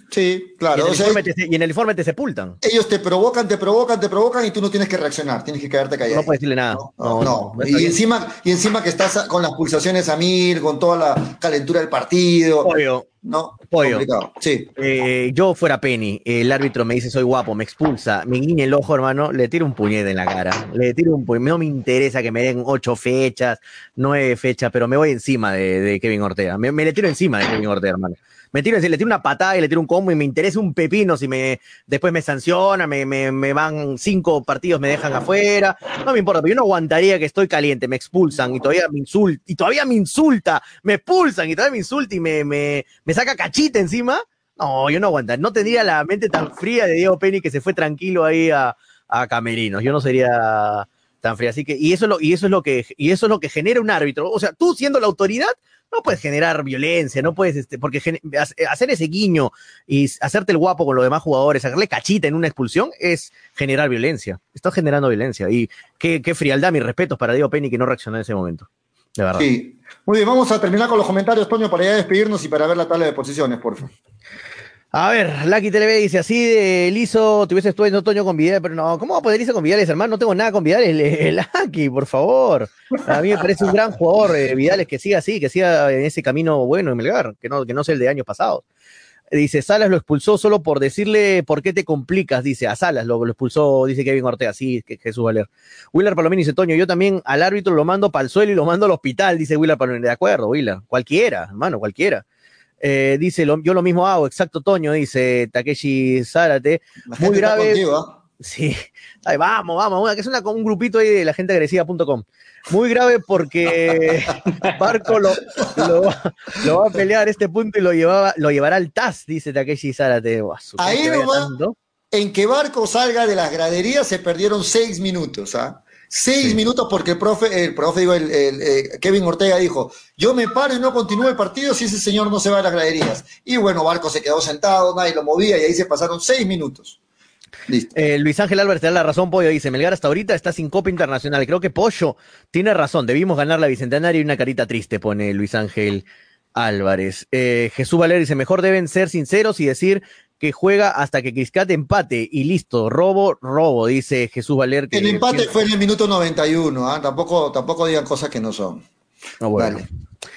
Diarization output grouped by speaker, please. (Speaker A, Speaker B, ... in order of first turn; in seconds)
Speaker A: 0.1-1.2, 2.6-14.7, 69.4-73.9, 107.1-108.2, 115.6-116.0, 120.8-121.5, 122.1-137.0, 137.7-137.9, 154.9-158.8, 159.6-159.8
Speaker B: 0.7-2.6, 6.1-8.0, 12.6-13.1, 13.7-14.1, 14.8-69.5, 74.9-88.6, 89.3-102.2, 102.8-107.8, 108.4-121.8, 137.9-155.5, 159.4-159.8